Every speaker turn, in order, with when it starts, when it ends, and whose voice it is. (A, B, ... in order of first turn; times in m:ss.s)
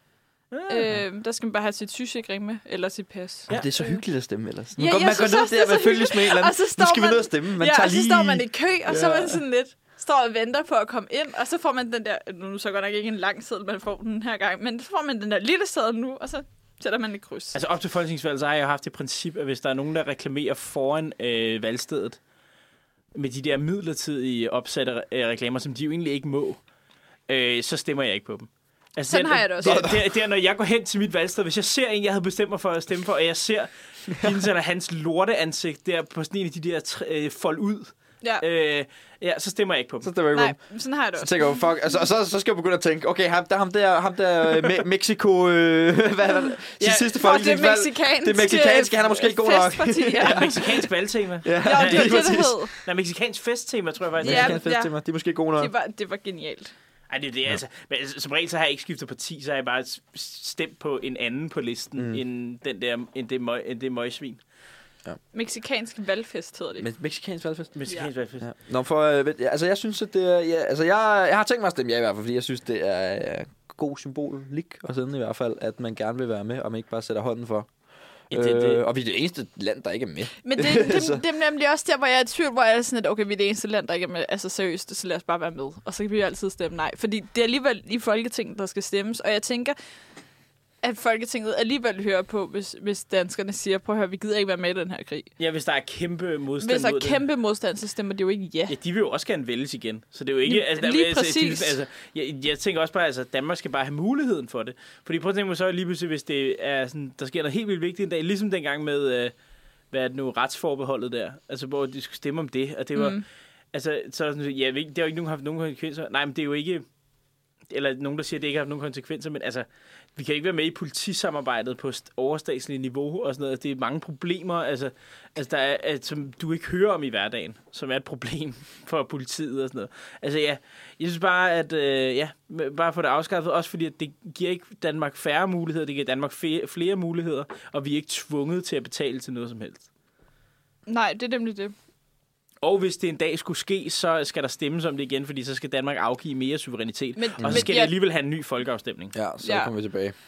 0:00.5-0:00.9 A
0:00.7-0:04.0 B
0:03.5-0:09.4 C
0:04.8-0:17.6 B
0:17.5-0:22.2 A
0:23.2-0:26.6 A
0:27.3-0:40.1 A
0:29.1-0:29.8 B
0:29.6-0:30.0 C
0:40.0-0:40.6 C
0:40.3-0:41.6 B
0:41.2-0:50.9 C
0:46.8-0:50.6 B
0:50.2-0:54.6 A
0:51.4-0:52.6 C
0:51.6-0:52.7 B
0:54.2-0:55.7 C
0:54.2-0:54.9 B
0:55.6-0:56.7 B
0:57.1-1:04.4 A
1:02.0-1:02.2 C
1:05.3-1:06.9 B
1:06.8-1:07.8 C
1:07.8-1:08.5 A
1:08.4-1:17.7 C
1:18.3-1:21.2 C
1:18.3-1:18.8 A
1:20.4-1:29.8 B
1:30.8-1:35.3 B
1:35.4-1:37.2 A
1:36.6-1:38.8 B
1:38.7-1:49.3 A
1:40.4-1:41.8 B
1:49.9-1:53.2 A
1:53.0-1:53.2 B
1:53.7-1:56.8 A
1:57.7-2:19.9 A
2:20.9-2:21.7 B
2:22.6-2:29.1 A
2:27.2-2:27.9 B
2:27.4-2:27.7 C
2:29.1-2:30.1 C
2:29.4-2:29.7 B